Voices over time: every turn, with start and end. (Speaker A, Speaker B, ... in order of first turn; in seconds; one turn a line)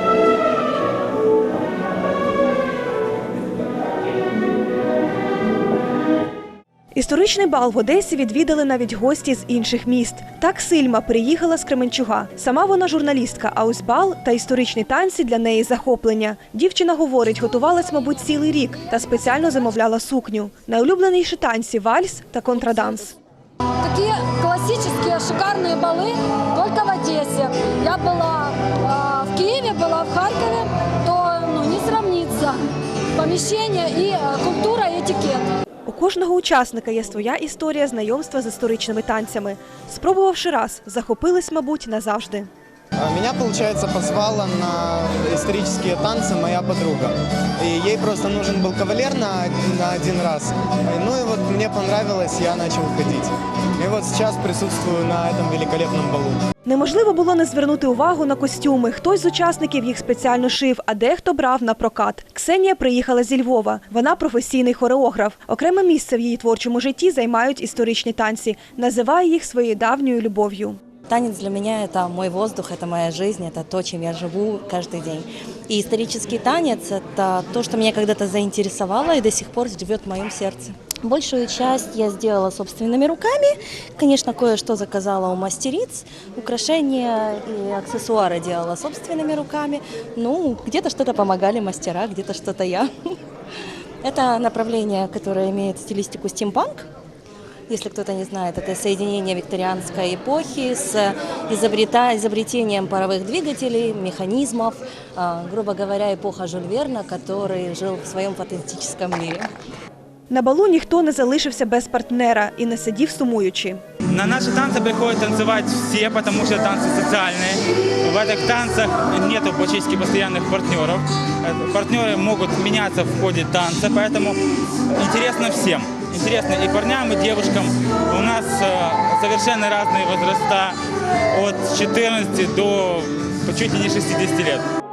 Speaker A: 6.9-23.1
Speaker B: 23.8-32.6
Speaker B: 33.1-35.5
Speaker A: 35.9-42.5
Speaker C: 43.0-56.4
Speaker A: 56.6-70.8
Speaker D: 71.1-93.1
Speaker D: 94.0-96.8
Speaker D: 97.7-109.5
Speaker A: 110.3-113.8
Speaker E: 114.1-124.4
Speaker E: 124.9-130.8
Speaker E: 131.3-134.6